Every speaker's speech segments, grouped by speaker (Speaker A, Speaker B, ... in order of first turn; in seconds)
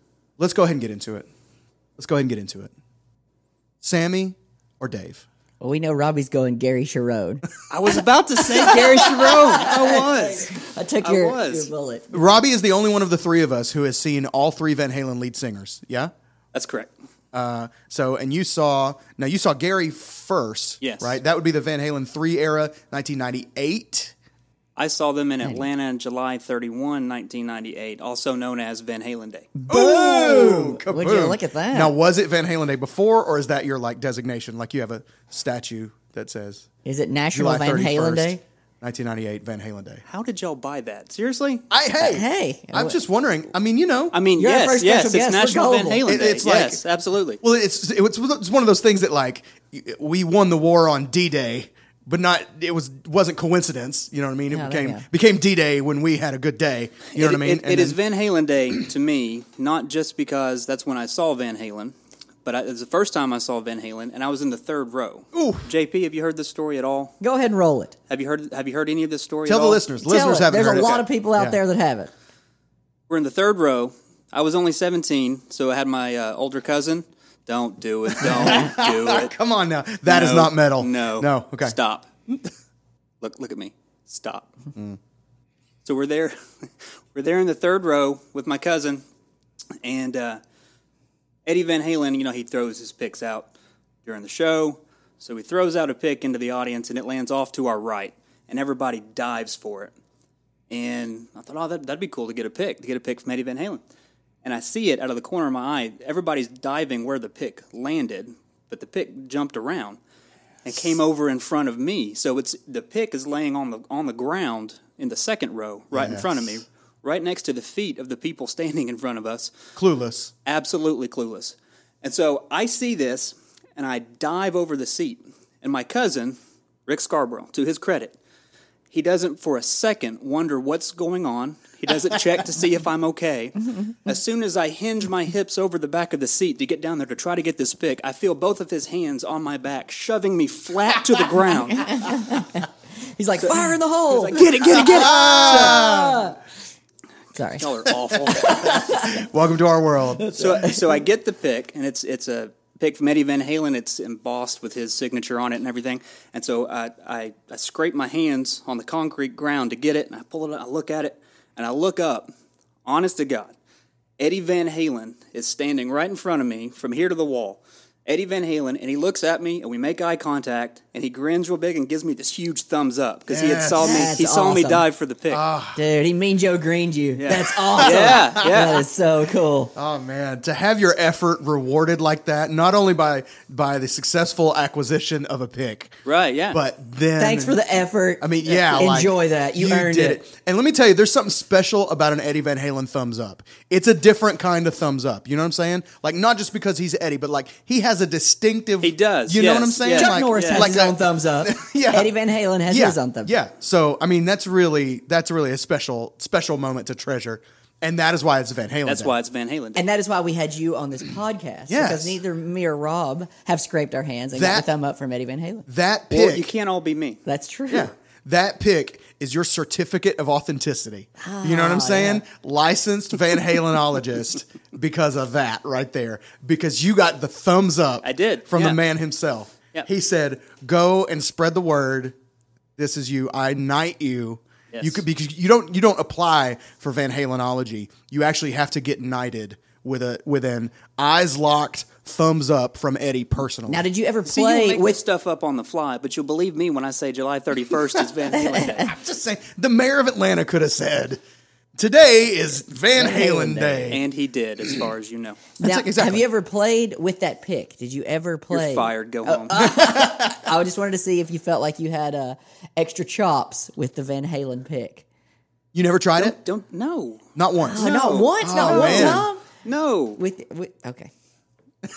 Speaker A: 0.4-1.3, 2.0-2.7, 3.8-5.2, 8.7-9.2, 12.1-16.1, 17.3-24.1, 29.7-36.6, 37.3-40.0, 41.7-44.1, 46.0-46.8, 47.4-58.0, 65.3-65.7, 69.5-71.6, 78.2-81.7, 115.9-116.5, 119.8-120.3, 144.6-146.3, 148.5-150.3, 173.3-174.1, 175.3-175.8, 177.7-178.7, 179.7-185.9, 186.5-187.6, 188.2-202.1, 202.7-209.1, 211.7-212.2, 214.3-214.7, 215.7-216.5, 217.7-232.1, 232.8-243.8, 248.7-251.2, 251.8-254.0, 255.6-256.2, 259.6-260.5, 265.7-266.4, 267.4-269.3
Speaker B: 5.6-7.5, 9.3-12.2, 29.6-31.9, 36.8-38.4, 42.0-43.0, 44.4-46.1, 54.5-55.0, 67.2-67.9, 70.0-72.1, 141.8-144.4, 145.0-146.4, 147.3-147.7, 148.3-149.2, 150.2-150.9, 173.8-174.8, 175.8-179.7, 187.2-190.2, 199.9-203.3, 209.7-215.7, 217.2-217.9, 221.2-222.2, 243.7-245.0, 252.9-254.0, 255.6-265.0, 267.6-269.4, 270.2-271.1
Speaker C: 7.7-10.5, 11.0-11.7, 16.5-16.9, 20.8-21.2, 24.8-29.5, 40.1-41.6, 44.1-47.4, 57.1-61.9, 62.4-67.2, 68.1-69.8, 73.1-79.3, 80.0-82.1, 83.2-84.5, 85.8-89.0, 89.8-90.4, 91.5-93.5, 94.0-99.9, 100.7-103.8, 104.4-110.0, 110.6-119.6, 120.4-128.2, 128.9-142.1, 144.1-145.8, 147.6-148.9, 150.4-162.3, 162.8-163.5, 164.2-175.4, 177.2-178.9, 186.0-186.6, 198.8-200.7, 208.8-209.8, 216.1-217.2, 228.0-228.8, 234.7-235.0, 244.3-248.9, 253.9-255.5, 258.5-259.7, 266.2-267.2, 267.8-270.2